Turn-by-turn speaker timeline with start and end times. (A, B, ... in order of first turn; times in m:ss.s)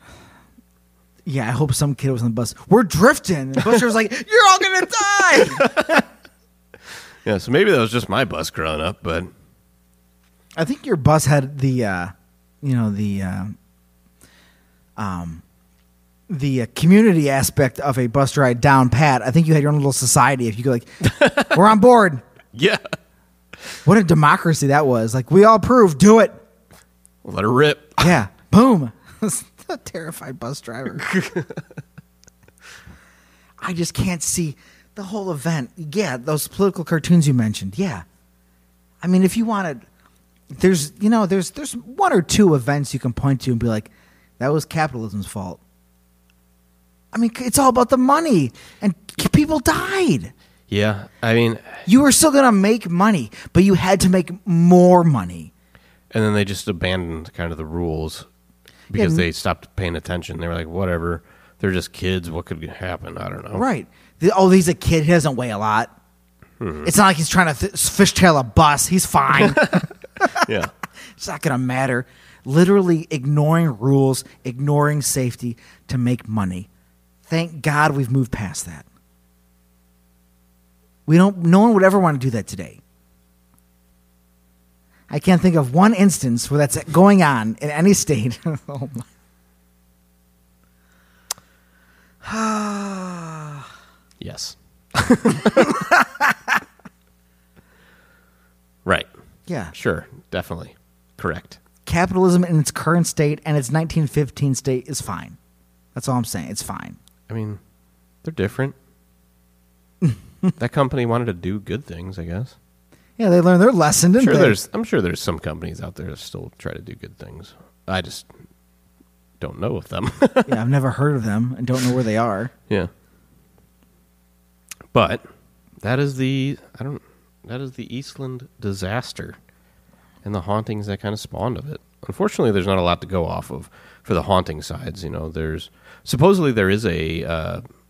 0:01.2-0:06.1 A
0:05.4-0:06.0 B
0:07.2-0:09.3 B
0:10.6-0:13.5 A
0:15.0-0:15.4 A
0:16.3-0:22.2 A
0:21.0-0:21.6 B
0:22.5-0:22.8 B
0:23.8-0:26.4 A
0:27.2-0:28.1 B
0:28.0-0:31.1 A
0:31.0-0:31.6 B
0:33.6-0:38.0 A
0:39.0-0:39.8 A
0:40.5-0:45.6 A
0:47.1-0:50.3 A
0:50.7-0:51.9 B
0:51.9-0:55.5 A
0:56.1-0:58.3 B
0:58.9-1:03.7 B
0:58.9-0:59.3 A
1:03.5-1:05.9 A
1:06.6-1:06.9 B
1:06.8-1:10.5 A
1:09.3-1:10.7 B
1:11.2-1:16.7 A
1:17.3-1:18.9 A
1:21.1-1:22.8 A
1:25.1-1:29.1 A
1:32.2-1:33.6 A
1:34.2-1:35.9 B
1:35.4-1:36.5 A
1:39.5-1:39.7 A
1:39.7-1:41.6 B
1:41.8-1:45.4 A
1:46.0-1:47.0 A
1:47.3-1:47.6 B
1:48.2-1:48.8 B
1:50.0-1:50.5 A
1:50.6-1:52.6 B
1:53.2-1:54.6 A
1:54.2-1:58.3 B
1:59.4-2:00.6 B
2:00.4-2:02.5 A
2:04.9-2:05.2 B
2:05.8-2:09.4 B
2:10.2-2:17.6 B